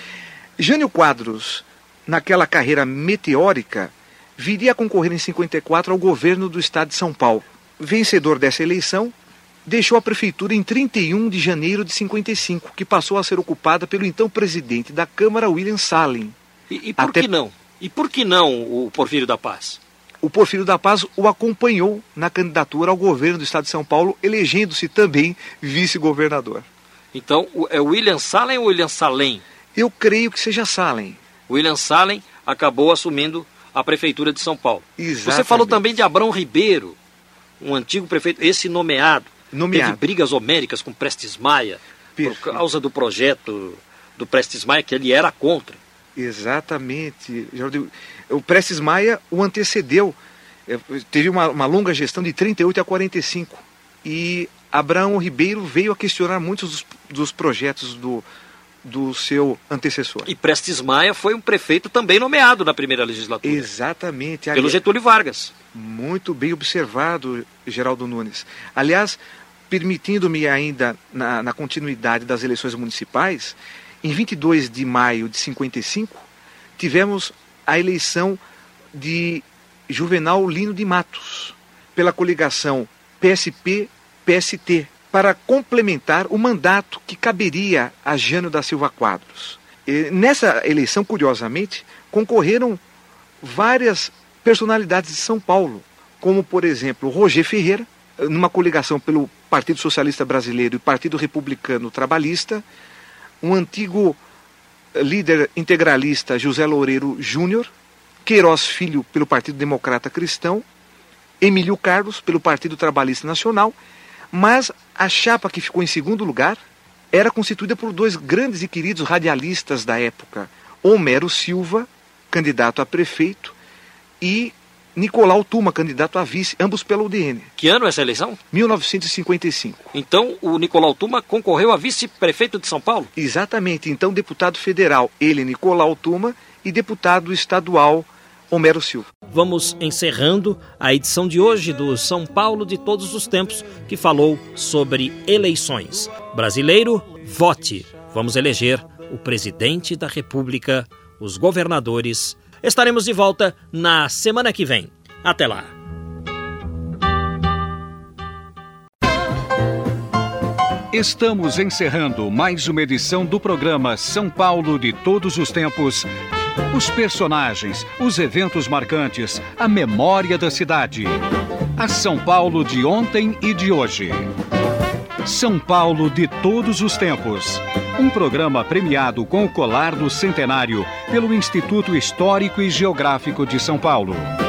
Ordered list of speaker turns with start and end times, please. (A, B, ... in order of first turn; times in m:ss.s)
0:00.6-0:16.4 A
0:16.7-0:19.8 B
0:17.0-0:17.3 A
0:20.2-0:26.7 A
0:27.1-0:29.4 B
0:29.7-0:31.2 A
0:31.5-0:37.0 B
0:35.0-0:35.8 A
0:37.6-0:45.8 B
0:39.5-0:40.0 A
0:42.2-0:42.6 A
0:46.2-0:58.2 A
0:58.8-1:00.3 A
1:00.2-1:03.7 B
1:03.4-1:04.8 A
1:04.5-1:05.5 B
1:05.7-1:16.2 A
1:16.8-1:18.4 A
1:18.9-1:32.8 A
1:33.4-1:42.6 A
1:43.4-1:44.2 A
1:44.9-1:47.7 A
1:48.2-1:50.6 A
1:51.4-1:53.8 A
1:54.3-1:56.6 A
1:57.1-2:03.5 A
2:04.2-2:07.5 A
2:07.6-2:08.4 B
2:08.5-2:09.9 A
2:09.9-2:13.1 B
2:13.2-2:19.1 A
2:19.3-2:35.7 B
2:40.9-2:46.1 C
2:46.7-2:51.2 C
2:51.8-2:54.3 C
2:55.2-3:04.3 C